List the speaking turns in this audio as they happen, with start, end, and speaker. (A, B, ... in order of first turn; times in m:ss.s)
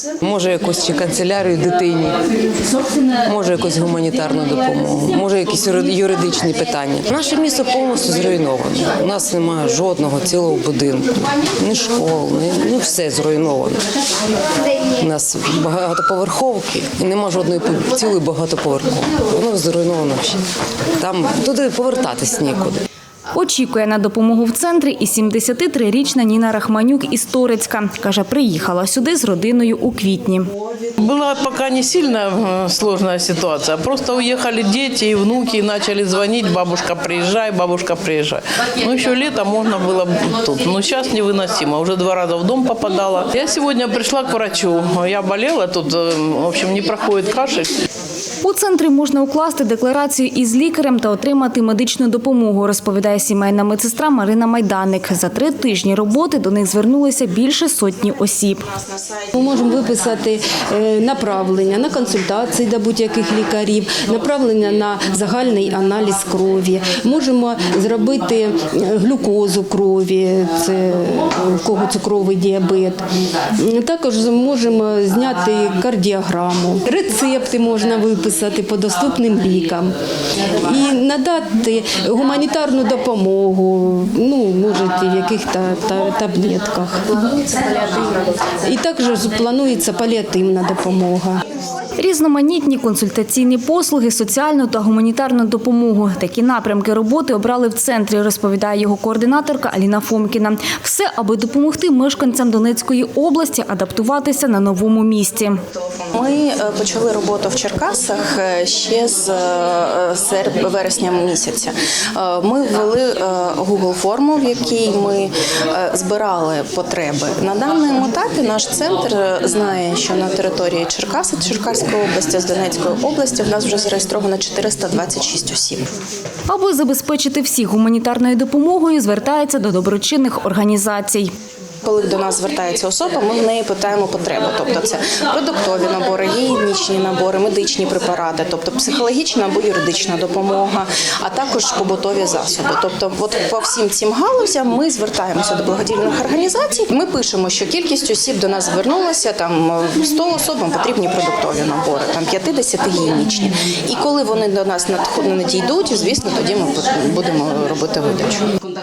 0:00.2-0:02.2 A
0:03.2-0:13.8 A
0:14.9-0:20.4 A
0:21.0-0:22.8 A
0:23.3-0:30.5 B
0:31.0-0:47.7 C
0:48.4-0:58.7 B
0:58.9-0:59.3 D
0:59.3-1:13.0 E
1:13.6-1:20.0 E
1:20.6-1:27.1 E
1:27.2-1:28.5 D
1:28.6-1:31.4 E
1:32.0-1:45.6 B
1:46.1-2:05.9 D
2:06.5-2:11.3 B
2:11.8-2:38.5 D